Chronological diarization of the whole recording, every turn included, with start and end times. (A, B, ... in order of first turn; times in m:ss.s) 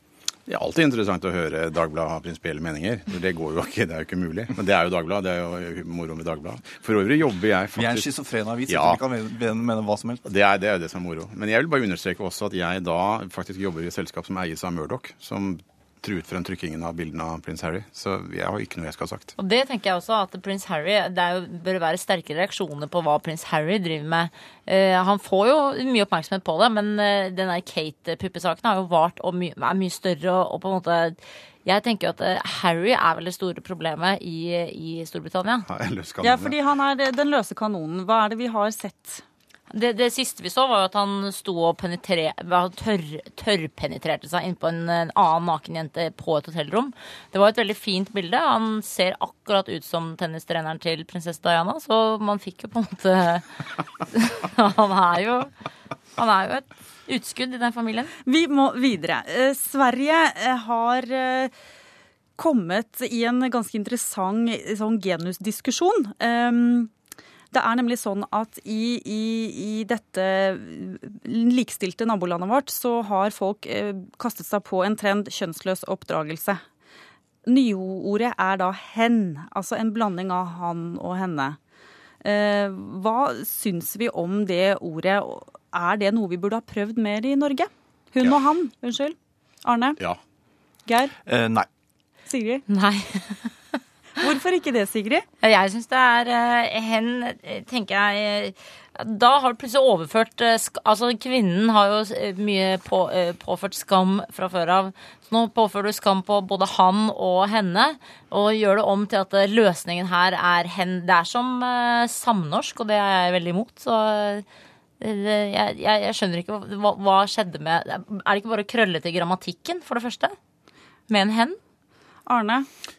0:00.5-0:08.1 A
0:07.7-0:10.2 B
0:08.7-0:09.0 A
0:10.2-0:19.3 A
0:19.4-0:35.6 C
0:35.7-0:36.5 A
0:36.2-0:39.2 D
0:39.7-0:53.5 C
0:54.1-0:55.5 C
0:56.2-0:58.1 C
0:58.2-1:01.5 D
1:02.4-1:06.9 D
1:07.5-1:16.6 D
1:17.4-1:21.6 D
1:22.2-1:30.0 D
1:30.9-1:31.1 D
1:31.2-1:31.7 B
1:32.3-1:32.6 D
1:32.7-1:33.8 C
1:34.2-1:35.2 D
1:35.4-1:54.4 C
1:55.0-2:00.4 C
2:01.1-2:01.6 C
2:02.2-2:02.7 D